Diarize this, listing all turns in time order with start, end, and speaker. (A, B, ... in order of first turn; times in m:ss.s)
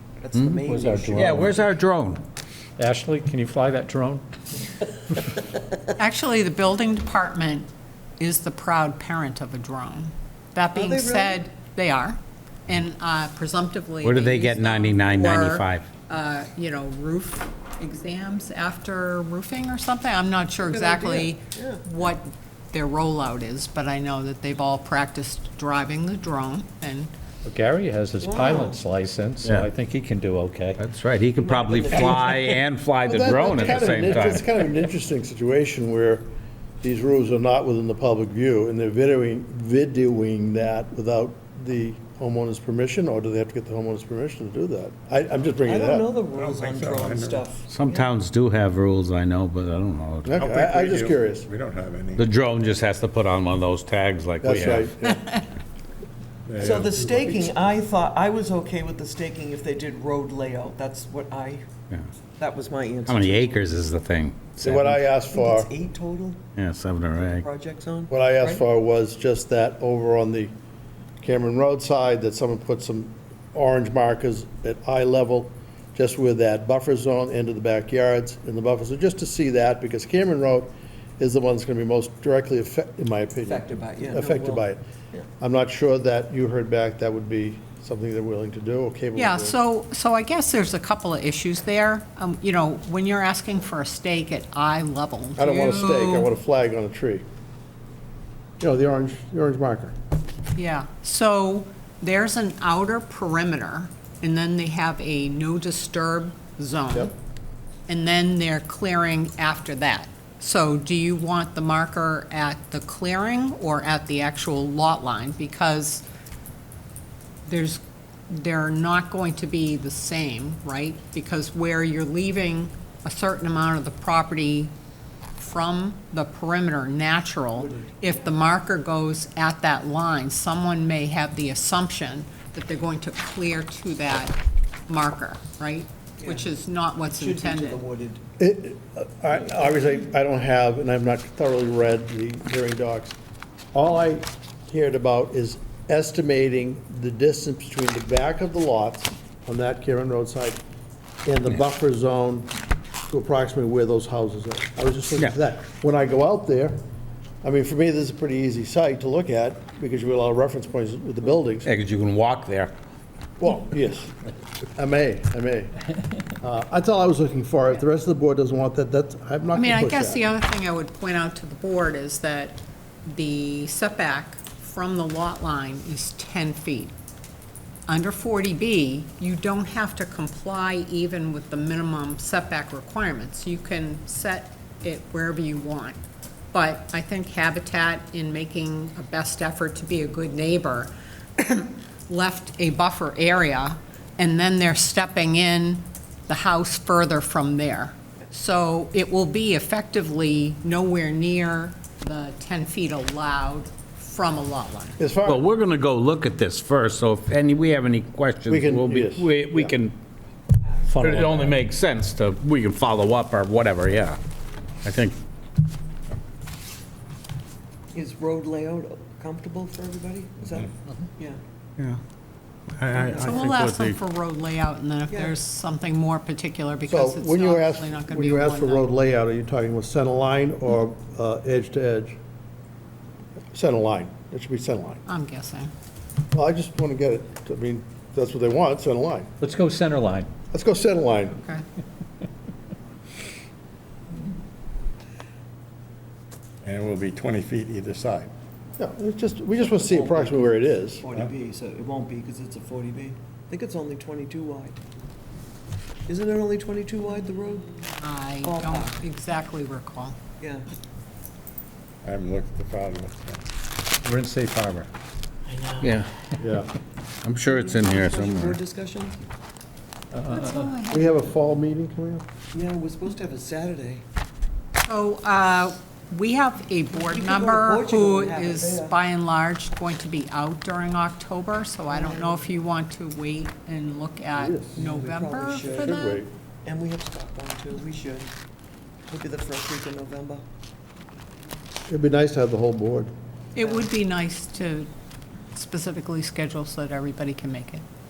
0:00.2-0:01.8 A
0:00.3-0:00.6 B
0:00.6-0:01.6 C
0:01.1-0:02.2 B
0:02.8-0:04.2 C
0:06.0-0:27.1 D
0:10.7-0:11.4 A
0:14.0-0:15.9 B
0:20.6-0:21.8 A
0:27.4-0:30.8 C
0:28.2-0:28.8 A
0:29.4-0:29.7 B
0:30.8-0:34.5 B
0:31.4-0:32.6 A
0:33.0-0:36.3 E
0:36.8-0:46.1 E
0:45.7-0:48.1 A
0:46.3-0:47.4 F
0:47.7-0:50.4 B
0:50.2-0:51.5 E
0:50.4-0:52.3 F
0:52.2-0:54.9 B
0:54.4-0:55.2 E
0:55.0-0:55.5 D
0:56.4-0:57.6 F
0:56.6-1:01.6 A
1:02.4-1:03.7 A
1:03.0-1:04.9 B
1:04.6-1:05.7 E
1:04.9-1:06.4 A
1:06.6-1:07.4 B
1:07.3-1:08.6 A
1:08.1-1:10.5 E
1:11.2-1:24.8 E
1:23.4-1:25.2 A
1:25.4-1:29.5 E
1:29.2-1:36.3 D
1:35.4-1:37.2 E
1:38.6-1:39.9 E
1:40.5-1:47.1 D
1:47.9-1:56.0 D
1:57.4-2:04.7 D
2:05.4-2:17.8 D
2:07.6-2:08.3 A
2:16.2-2:16.5 A
2:17.0-2:18.2 A
2:18.4-2:23.2 E
2:23.7-2:30.6 E
2:31.2-2:32.5 E
2:33.1-2:36.8 E
2:37.4-2:41.7 E
2:41.6-2:42.7 B
2:43.4-2:45.7 E
2:46.4-2:50.2 E
2:49.5-2:56.9 D
2:57.9-3:06.0 D
3:06.5-3:25.0 D
3:25.0-3:25.4 E
3:25.2-3:29.9 B
3:28.5-3:29.7 E
3:30.9-3:34.2 B
3:31.0-3:31.5 E
3:34.8-3:35.2 B
3:37.9-3:41.4 A
3:42.8-3:44.0 B
3:42.9-3:43.4 A
3:43.2-3:48.9 D
3:45.1-3:45.4 A
3:46.9-3:52.2 E
3:53.5-3:55.0 E
3:55.1-3:55.7 D
3:56.3-3:59.3 E
3:59.4-4:00.3 C
4:00.5-4:01.4 E
4:06.6-4:08.3 F
4:08.8-4:11.0 E
4:09.6-4:14.8 A
4:16.1-4:17.8 A
4:18.0-4:20.2 D
4:18.4-4:19.0 A
4:20.4-4:20.7 A
4:22.0-4:23.4 F
4:24.0-4:24.9 C
4:25.8-4:26.1 B
4:26.4-4:26.7 E
4:27.2-4:28.6 B
4:27.4-4:29.2 A
4:30.3-4:31.1 D
4:30.9-4:32.2 E
4:32.5-4:34.0 A
4:34.8-4:46.2 D
4:36.9-4:39.0 A
4:41.9-4:42.5 A
4:44.3-4:44.8 E
4:44.7-4:48.3 A
4:45.7-4:46.3 E
4:49.1-4:50.4 A
4:51.9-4:53.1 E
4:53.6-4:54.9 D
4:53.6-4:53.9 A
4:55.5-4:57.8 D